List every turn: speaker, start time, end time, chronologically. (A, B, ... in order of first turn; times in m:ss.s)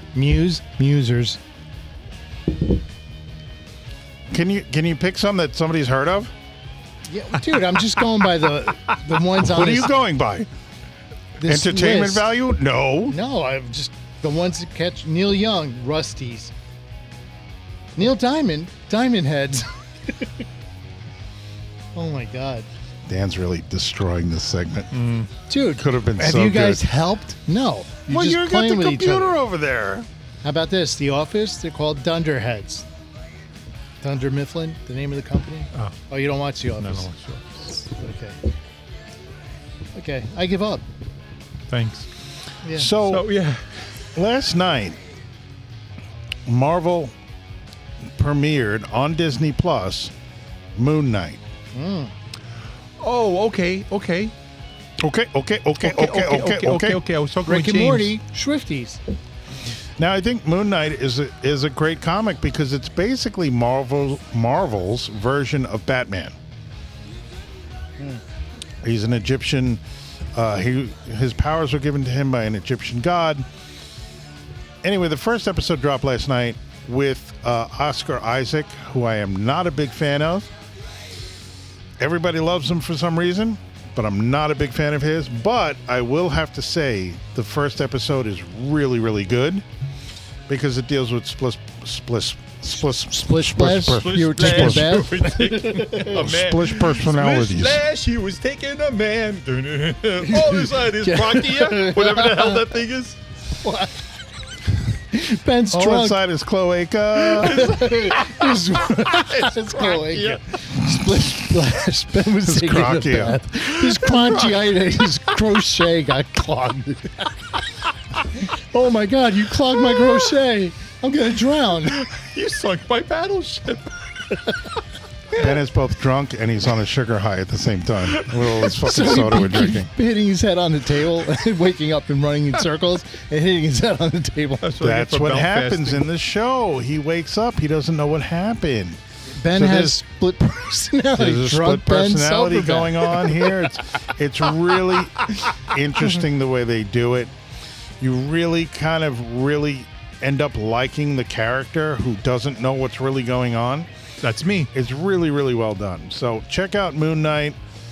0:00.1-0:01.4 A
0:04.3-0:06.3 B
0:07.1-0:09.9 A
0:09.4-0:10.5 B
0:11.4-0:12.3 A
0:11.4-0:13.2 B
0:13.1-0:16.5 A
0:18.0-0:20.4 A
0:21.9-0:22.7 A
0:23.1-0:25.0 B
0:24.9-0:25.3 C
0:25.5-0:29.4 A
0:25.7-0:26.8 B
0:28.1-0:30.1 B
0:30.4-0:32.9 A
0:34.0-0:37.1 A
0:36.8-0:37.7 C
0:37.7-0:38.4 A
0:39.9-0:40.8 A
0:41.7-0:42.1 C
0:42.6-0:42.9 A
0:42.7-0:43.3 B
0:42.9-0:43.9 C
0:44.1-0:45.0 B
0:46.4-0:47.1 B
0:48.1-0:50.1 B
0:50.7-0:51.4 B
0:51.7-0:52.1 A
0:53.0-0:54.3 C
0:55.0-0:57.0 B
0:55.8-0:58.1 C
0:57.4-0:59.0 A
1:00.0-1:06.3 B
1:08.8-1:09.8 B
1:10.3-1:13.4 B
1:14.8-1:20.5 B
1:22.0-1:29.6 B
1:30.5-1:35.0 B
1:32.9-1:36.1 A
1:33.7-1:43.2 C
1:36.1-1:37.8 B
1:40.2-1:42.7 A
1:43.6-1:44.0 A
1:44.9-1:46.2 A
1:45.7-1:47.6 B
1:47.3-1:50.4 C
1:47.4-1:57.4 A
1:52.4-1:53.4 B
1:53.7-1:54.7 C
1:58.3-2:02.0 A
2:01.8-2:03.9 C
2:05.3-2:09.9 B
2:08.1-2:08.5 C
2:08.6-2:14.7 A
2:14.6-2:16.0 C
2:14.8-2:20.0 B
2:19.3-2:23.6 A
2:21.1-2:27.3 B
2:28.0-2:33.9 B
2:34.2-2:34.7 C
2:34.7-2:37.6 B